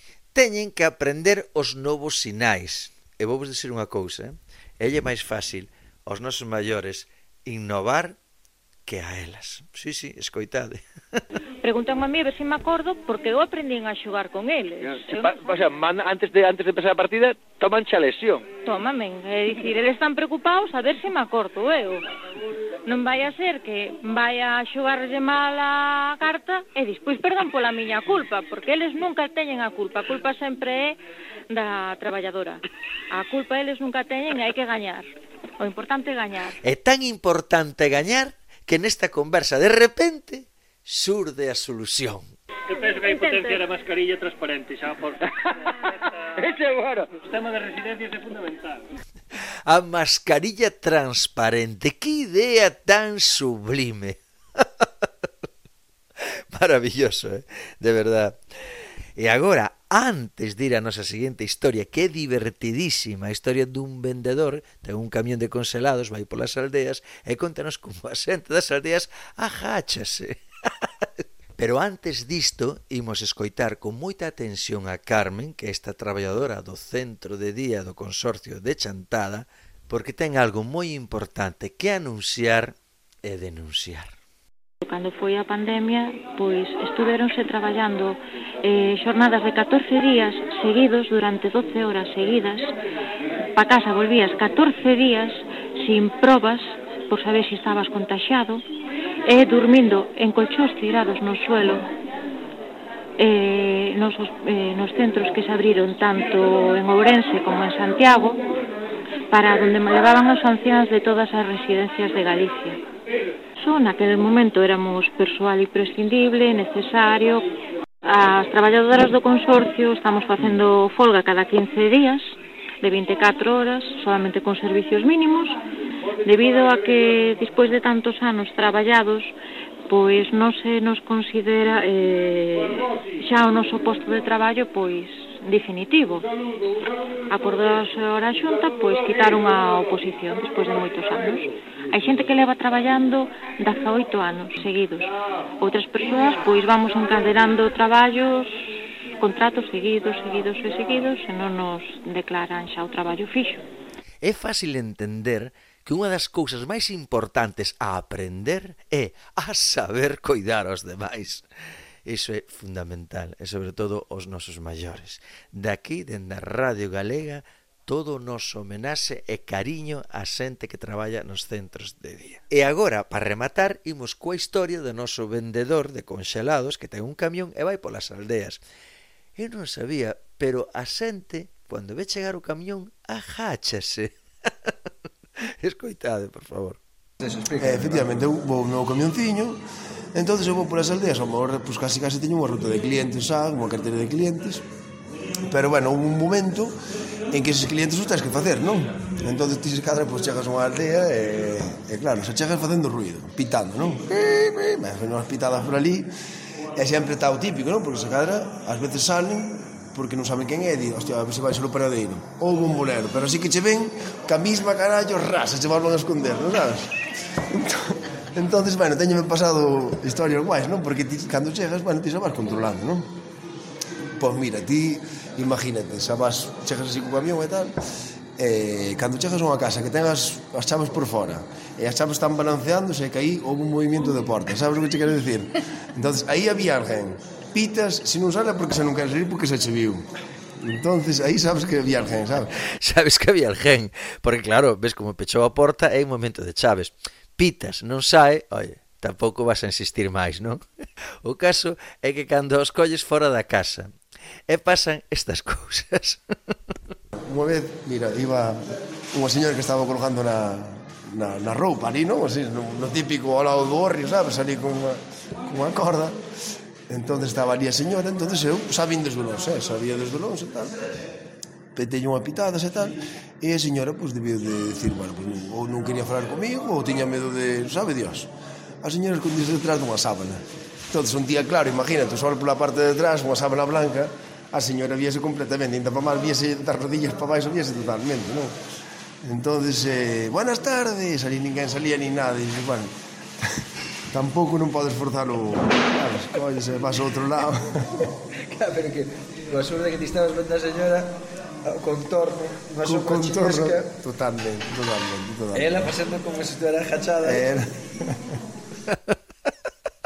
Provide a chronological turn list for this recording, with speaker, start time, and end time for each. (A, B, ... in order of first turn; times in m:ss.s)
0:00.3-0:08.2 A
0:08.8-0:10.8 A
0:11.6-0:15.6 B
0:14.8-0:18.5 C
0:18.6-0:22.0 B
0:22.8-0:36.6 B
0:36.6-0:42.3 A
0:42.7-0:45.2 D
0:42.8-0:43.7 B
0:46.3-0:47.1 C
0:47.2-0:48.8 D
0:49.6-0:54.2 A
0:56.5-0:58.4 A
0:59.2-1:10.4 A
1:11.2-1:24.2 A
1:24.8-1:32.7 B
1:33.5-1:38.6 B
1:39.2-1:41.8 B
1:43.2-1:48.4 B
1:49.3-1:52.8 B
1:53.6-1:57.5 B
1:58.0-2:05.6 B
2:06.2-2:09.3 B
2:09.9-2:16.3 B
2:17.3-2:33.6 B
2:34.2-2:41.4 A
2:42.0-2:58.6 A
2:59.4-3:04.1 A
3:05.6-3:06.8 A
3:07.2-3:08.2 E
3:07.6-3:09.6 F
3:10.1-3:14.6 F
3:15.5-3:16.7 F
3:17.3-3:26.1 F
3:26.8-3:36.9 F
3:37.5-3:43.0 F
3:44.2-3:47.7 F
3:48.4-4:00.0 F
4:00.6-4:02.5 F
4:02.7-4:10.6 A
4:11.2-4:13.9 A
4:14.5-4:16.5 A
4:17.3-4:18.6 F
4:19.1-4:26.2 F
4:26.9-4:30.7 F
4:31.7-4:38.3 F
4:38.8-4:48.5 F
4:49.2-4:52.9 F
4:54.1-4:58.0 F
4:58.3-5:03.9 E
5:02.8-5:05.9 F
5:05.5-5:07.6 E
5:07.2-5:08.0 F
5:08.9-5:09.1 A